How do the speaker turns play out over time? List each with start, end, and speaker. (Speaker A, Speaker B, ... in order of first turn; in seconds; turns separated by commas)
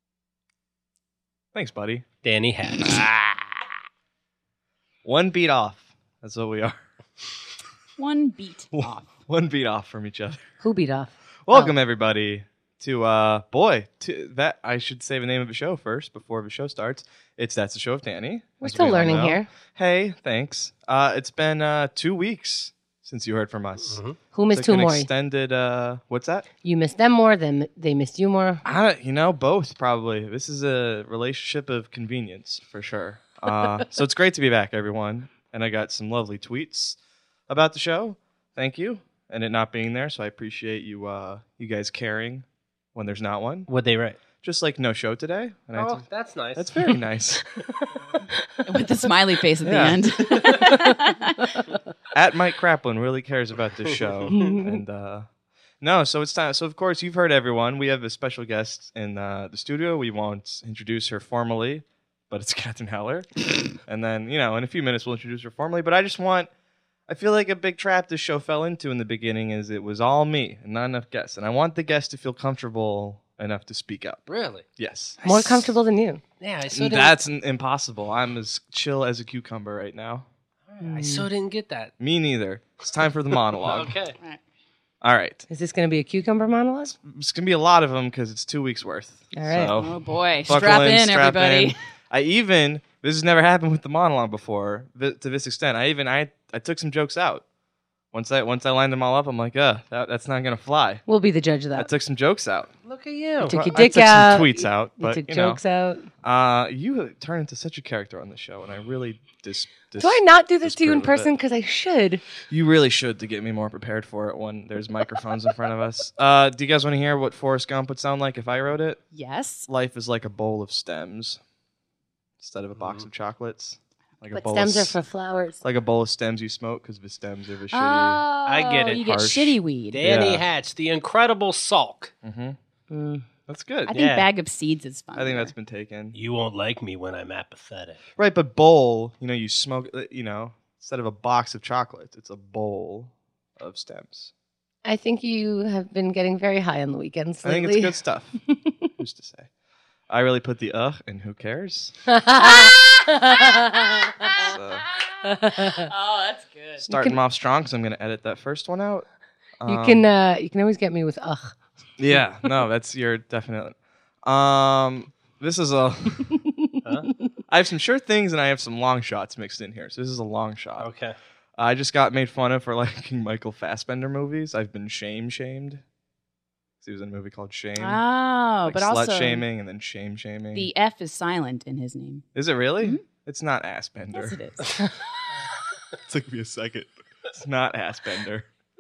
Speaker A: 1.5-2.0, Speaker B: 2.2-3.0, Speaker A: 5.0-6.8, Speaker C: 8.0-9.1, Speaker A: 8.7-10.4, Speaker D: 10.6-11.7, Speaker A: 11.5-26.5, Speaker D: 18.6-19.5, Speaker B: 23.9-24.2, Speaker D: 24.3-25.1, Speaker D: 26.6-28.6, Speaker A: 28.6-37.0, Speaker A: 37.5-43.7, Speaker B: 43.7-44.2, Speaker A: 44.4-47.5, Speaker B: 45.8-46.7, Speaker C: 48.7-51.5, Speaker A: 49.6-50.1, Speaker D: 50.3-50.9, Speaker A: 52.1-55.3, Speaker D: 54.3-54.7, Speaker A: 55.8-66.5, Speaker A: 67.1-75.7, Speaker B: 74.3-74.7, Speaker D: 75.2-76.2, Speaker B: 76.4-77.2, Speaker A: 76.7-80.3, Speaker B: 80.7-81.9, Speaker D: 80.8-81.3, Speaker A: 82.0-84.0, Speaker B: 83.6-84.2, Speaker A: 85.0-85.5, Speaker D: 85.5-87.0, Speaker A: 87.0-97.4, Speaker D: 89.3-89.8, Speaker C: 89.8-91.8, Speaker A: 98.1-101.0, Speaker D: 101.1-101.9, Speaker A: 101.8-102.7, Speaker B: 102.9-103.7, Speaker A: 103.4-105.6, Speaker D: 103.4-106.1, Speaker A: 106.2-111.3, Speaker D: 110.0-112.2, Speaker A: 112.5-119.0, Speaker C: 119.1-119.7, Speaker A: 119.7-121.4, Speaker A: 122.4-125.0, Speaker D: 124.3-125.6, Speaker A: 125.6-128.2, Speaker C: 127.7-130.0, Speaker B: 128.5-129.0, Speaker A: 128.9-130.4, Speaker B: 129.9-132.1, Speaker A: 132.2-132.6, Speaker D: 132.9-133.3, Speaker A: 133.5-134.0, Speaker C: 133.9-135.5, Speaker B: 133.9-134.3, Speaker A: 135.2-136.2, Speaker B: 136.1-138.0, Speaker A: 138.2-144.3, Speaker D: 144.8-148.0, Speaker A: 147.4-148.4, Speaker D: 148.5-148.9, Speaker A: 149.0-149.5, Speaker A: 150.1-152.0, Speaker D: 152.1-154.5, Speaker C: 152.4-156.9, Speaker A: 154.3-154.8, Speaker D: 155.2-155.9, Speaker D: 156.9-157.2, Speaker A: 156.9-159.1, Speaker A: 159.6-160.0, Speaker D: 159.7-161.6, Speaker A: 162.0-166.4, Speaker D: 166.8-167.3, Speaker B: 166.8-167.1, Speaker A: 167.5-170.9, Speaker B: 170.8-171.2, Speaker A: 171.6-175.8, Speaker A: 176.8-178.0, Speaker C: 177.8-179.4, Speaker A: 178.6-180.7, Speaker C: 180.5-182.2, Speaker A: 182.3-184.4, Speaker C: 184.1-184.8, Speaker A: 186.0-188.5